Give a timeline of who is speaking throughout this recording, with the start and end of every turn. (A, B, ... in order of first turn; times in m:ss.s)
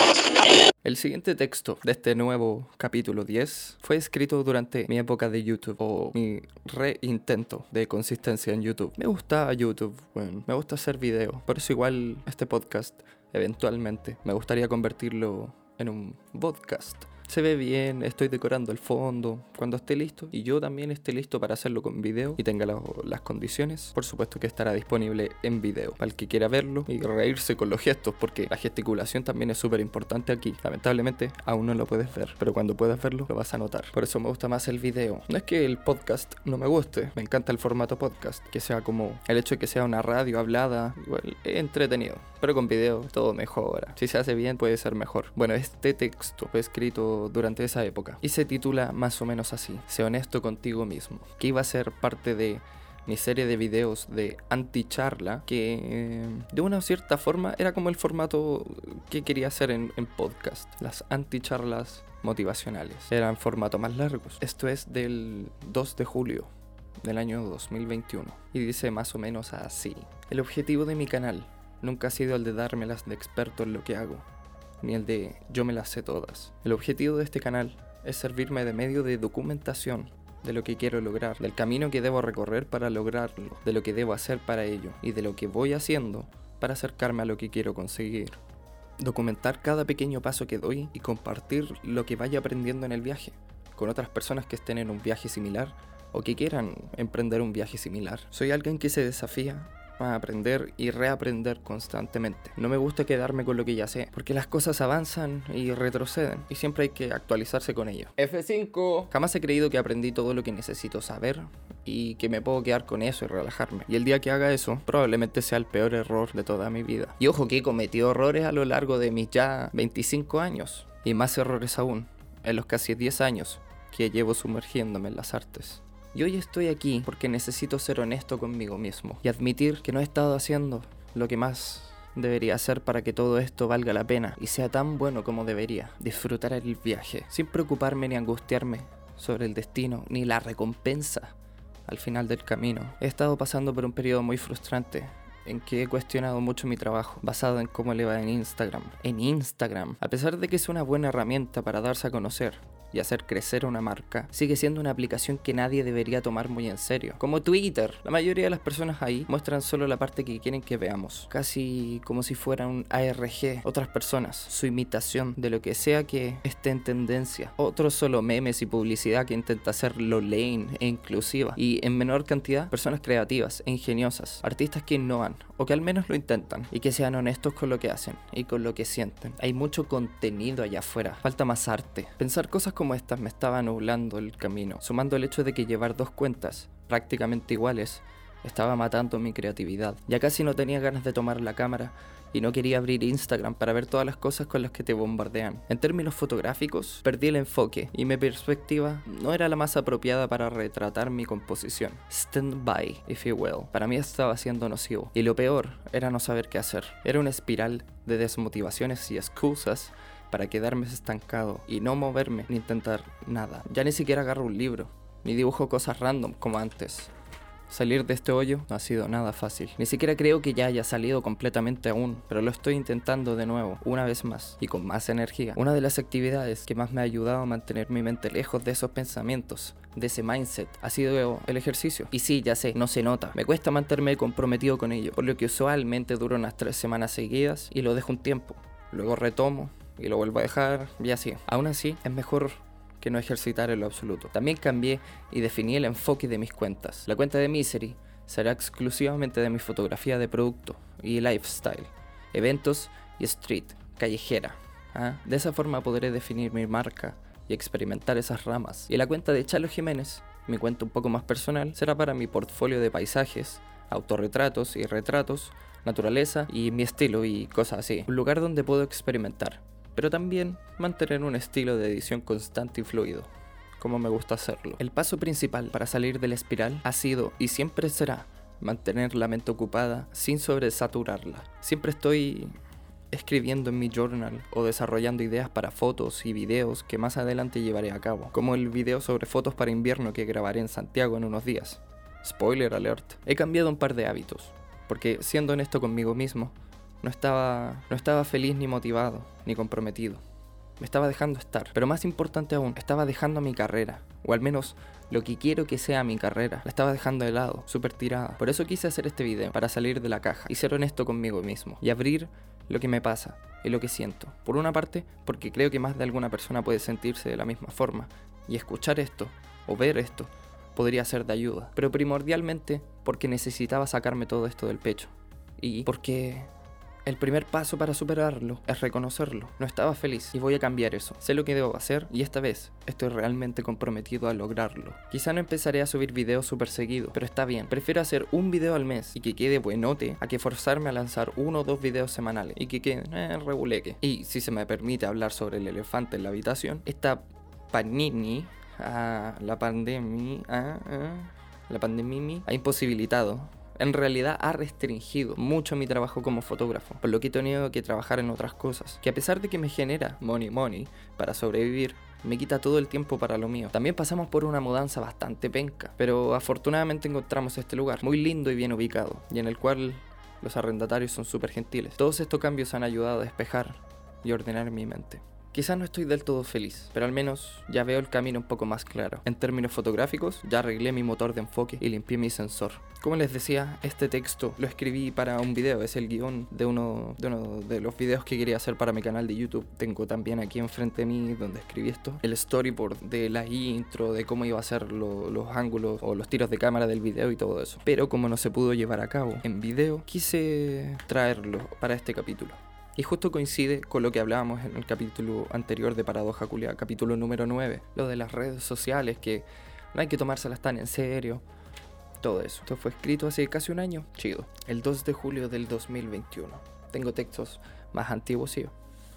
0:00.8-1:06.5 A
1:07.0-1:14.3 A
1:14.8-1:28.4 A
1:29.0-2:21.4 A
2:21.9-3:37.1 A
3:37.7-4:42.5 A
4:43.1-5:00.2 A
5:00.8-5:26.5 A
5:27.0-6:51.4 A
6:52.2-6:58.7 A